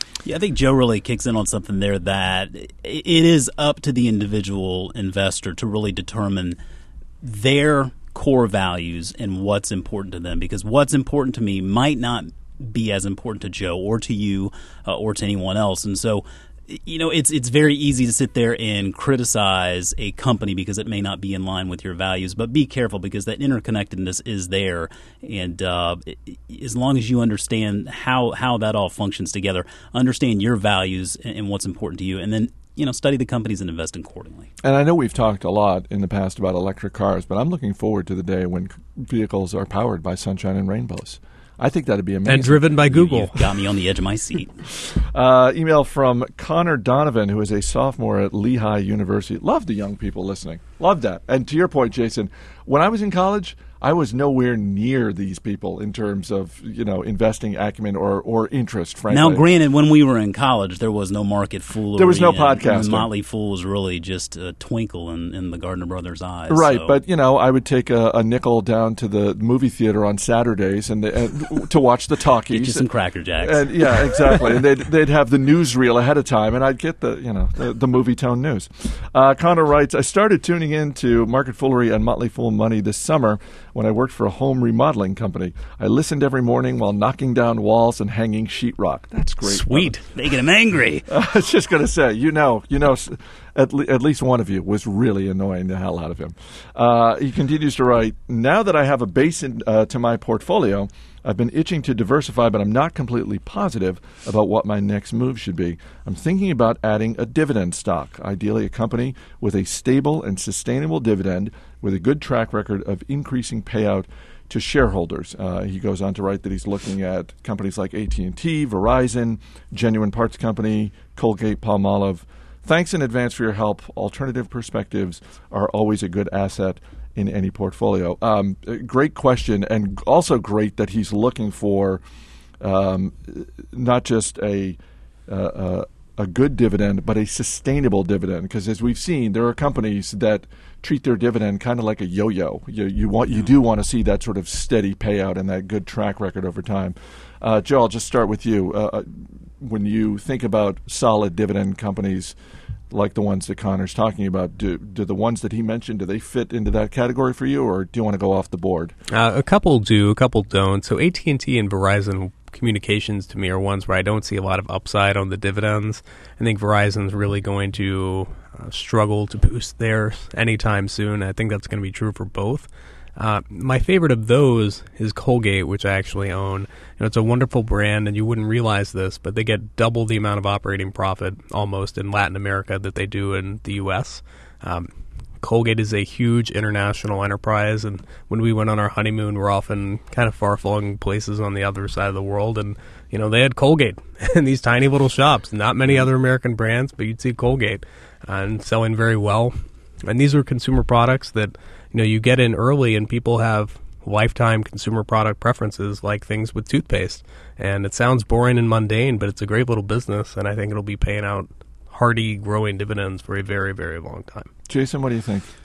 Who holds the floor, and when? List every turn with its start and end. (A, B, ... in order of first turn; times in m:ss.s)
0:00.2-0:06.6 A
0:07.2-0:34.5 A
0:34.6-0:42.7 B
0:42.2-0:43.5 C
0:42.9-0:44.5 A
0:44.8-0:59.4 B
0:59.1-1:07.0 A
1:01.9-1:03.1 B
1:06.5-1:12.8 B
1:12.5-1:13.7 A
1:13.4-1:30.0 B
1:29.4-1:30.0 C
1:30.1-1:31.0 A
1:31.1-2:12.0 B
2:12.6-2:32.3 B
2:32.9-2:38.9 B
2:39.1-3:04.9 C
3:05.4-3:19.5 C
3:20.1-3:34.5 C
3:34.7-3:35.5 B